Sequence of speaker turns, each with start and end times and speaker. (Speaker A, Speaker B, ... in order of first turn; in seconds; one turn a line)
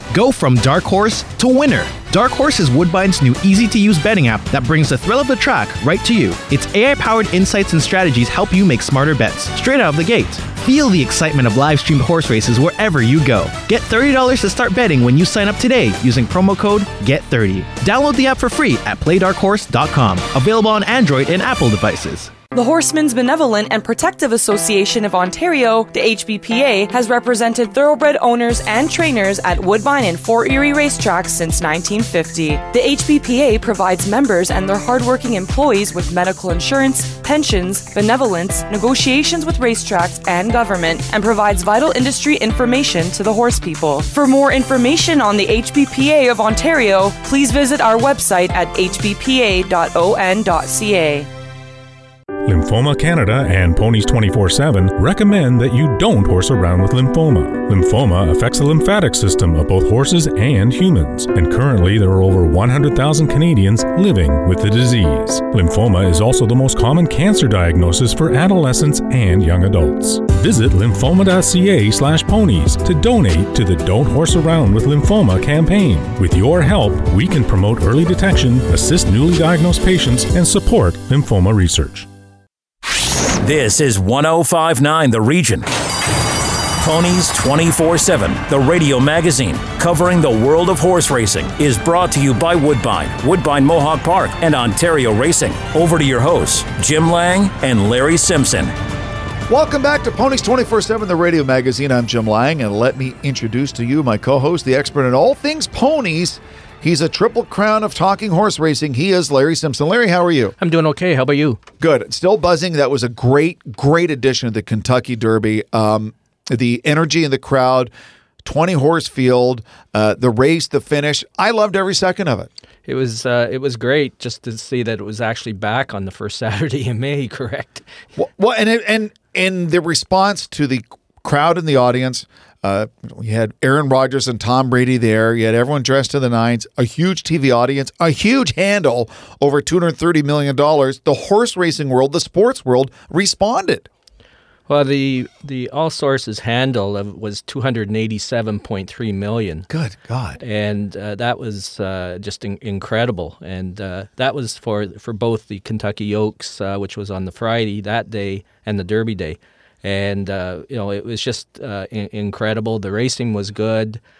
Speaker A: 0.1-22.3
Speaker B: 22.5-51.3
Speaker C: 52.4-82.1
Speaker D: 83.4-85.7
Speaker D: 86.8-98.7
Speaker E: 99.5-110.5
Speaker F: 110.6-111.6
Speaker E: 111.8-117.9
Speaker E: 118.4-122.5
Speaker F: 122.8-127.8
Speaker E: 128.2-143.9
Speaker F: 144.7-149.7
Speaker E: 149.7-150.4
Speaker F: 150.4-164.0